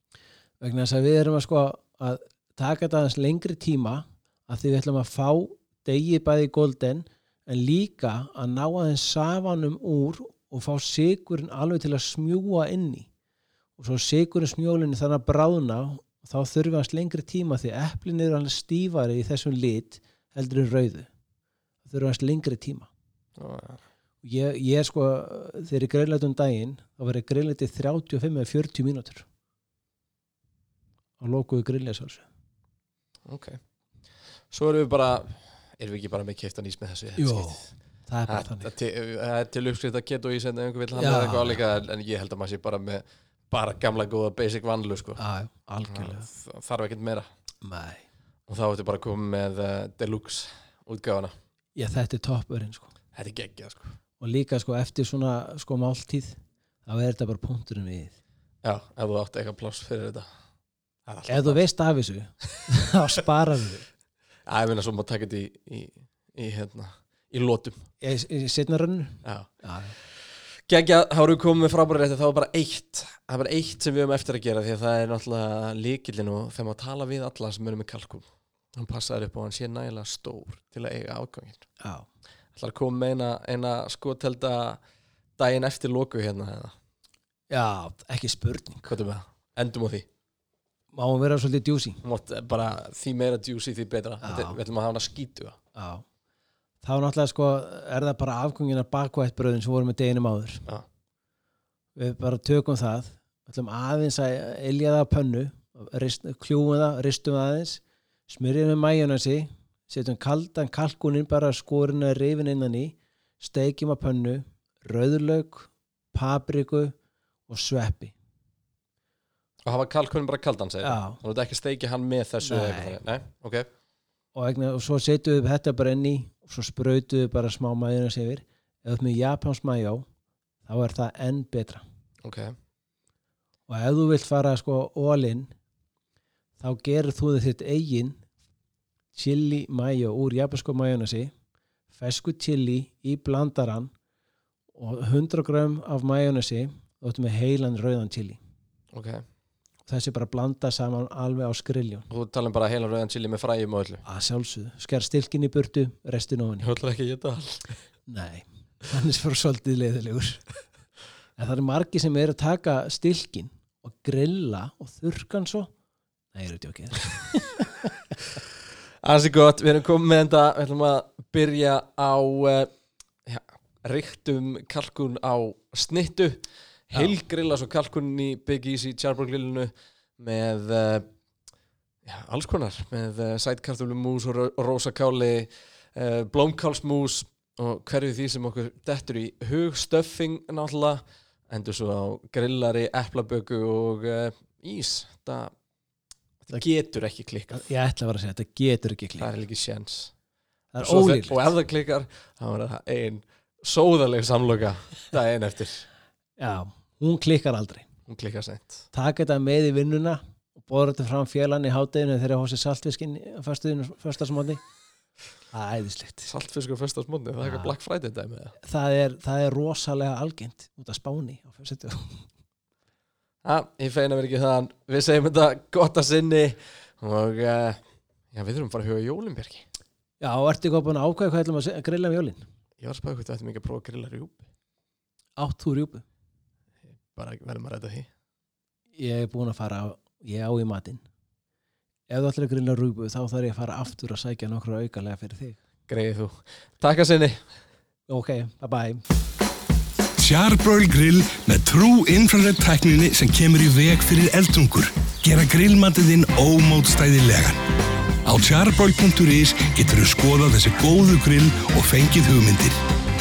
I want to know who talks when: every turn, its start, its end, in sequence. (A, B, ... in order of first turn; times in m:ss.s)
0:00.6-0:13.1 A
0:13.8-0:21.1 A
0:21.8-0:22.9 A
0:23.4-0:23.8 B
0:24.2-0:29.2 A
0:31.2-0:32.2 A
0:33.2-0:33.6 B
0:34.5-0:37.7 B
0:37.2-0:38.7 A
0:38.3-0:45.2 B
0:41.0-0:41.6 A
0:45.2-0:46.3 A
0:45.9-0:47.3 B
0:47.6-0:48.0 A
0:48.5-0:51.3 B
0:51.7-0:52.9 A
0:53.1-0:54.0 B
0:54.2-0:58.2 A
0:58.6-1:00.3 B
1:01.0-1:01.6 B
1:01.3-1:03.8 A
1:04.5-1:07.9 B
1:08.0-1:09.9 A
1:09.2-1:09.5 B
1:10.7-1:21.6 B
1:21.8-1:22.0 A
1:22.5-1:24.8 B
1:25.4-1:26.7 B
1:27.5-1:28.9 A
1:28.9-1:30.0 B
1:30.9-1:32.0 A
1:32.0-1:35.6 B
1:34.2-1:34.6 A
1:35.7-1:36.0 A
1:36.8-1:40.6 A
1:42.0-1:56.9 A
1:57.5-1:58.1 A
1:59.6-2:03.7 B
2:00.8-2:01.2 A
2:02.4-2:03.0 A
2:04.3-2:10.1 A
2:10.6-2:11.8 A
2:12.2-2:12.5 B
2:13.7-2:15.5 A
2:16.6-2:18.2 A
2:19.1-2:21.3 A
2:21.9-2:23.9 A
2:24.7-2:28.4 A
2:28.9-2:29.2 B
2:29.8-2:32.1 A
2:32.1-2:34.0 B
2:34.0-2:36.7 A
2:36.6-2:37.7 B
2:38.1-2:40.4 A
2:41.4-2:45.7 A
2:46.3-2:48.0 A
2:49.0-2:52.7 B
2:53.2-3:01.1 B
3:02.0-3:15.5 B
3:16.4-3:17.7 B
3:17.5-3:19.3 A
3:19.2-3:20.1 B
3:20.7-3:21.5 A
3:20.8-3:25.9 B
3:26.4-3:27.9 A
3:28.1-3:28.9 B
3:28.9-3:34.6 A
3:35.5-3:36.3 A
3:36.2-3:38.6 B
3:37.4-3:37.7 A
3:38.6-3:42.2 A
3:43.4-3:47.8 B
3:48.3-3:49.7 B
3:50.2-3:52.4 A
3:52.8-3:54.4 B
3:55.4-3:56.0 A
3:57.1-3:58.1 B
3:59.0-4:01.0 A
4:02.1-4:05.6 A
4:05.9-4:07.4 B
4:08.1-4:09.0 A
4:10.2-4:17.6 C
4:18.2-4:22.8 C